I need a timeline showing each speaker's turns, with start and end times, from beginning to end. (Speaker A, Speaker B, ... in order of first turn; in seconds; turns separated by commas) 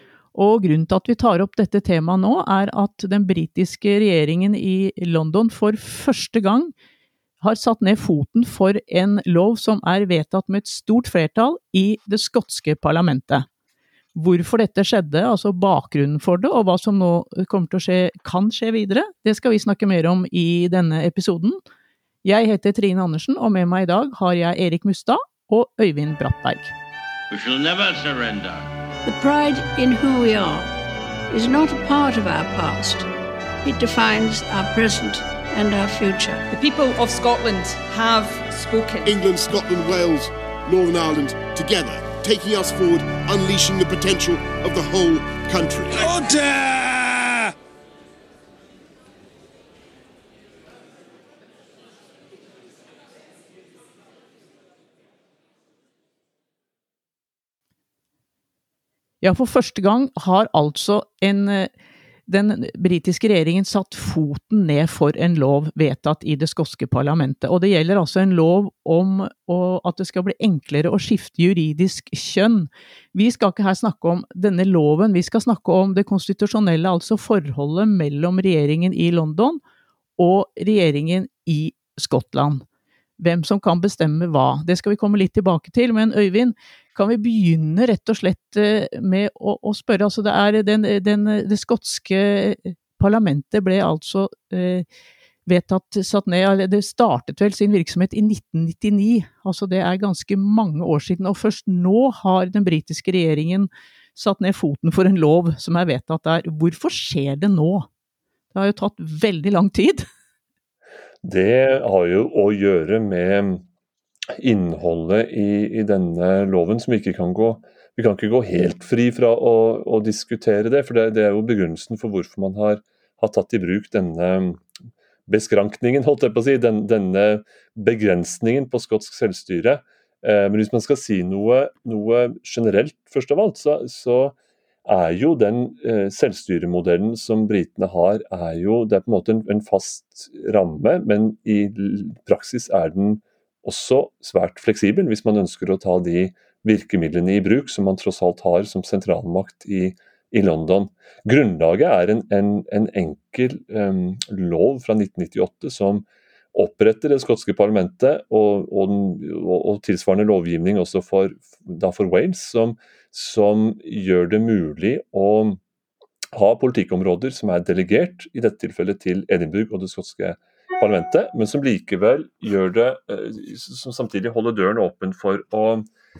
Speaker A: 0.3-6.7, Speaker A: 7.4-13.4, Speaker A: 14.1-21.6, Speaker A: 22.2-26.7, Speaker B: 27.3-28.7, Speaker C: 29.0-30.7, Speaker C: 31.3-33.1, Speaker C: 33.6-36.4, Speaker D: 36.5-39.1, Speaker E: 39.0-46.1, Speaker B: 46.0-47.3, Speaker A: 59.2-61.7, Speaker A: 62.3-79.6, Speaker A: 80.2-82.6, Speaker A: 83.2-94.8, Speaker A: 95.5-107.9, Speaker A: 108.5-110.0, Speaker F: 111.2-113.6, Speaker F: 114.4-124.6, Speaker F: 125.3-165.6, Speaker F: 166.3-175.9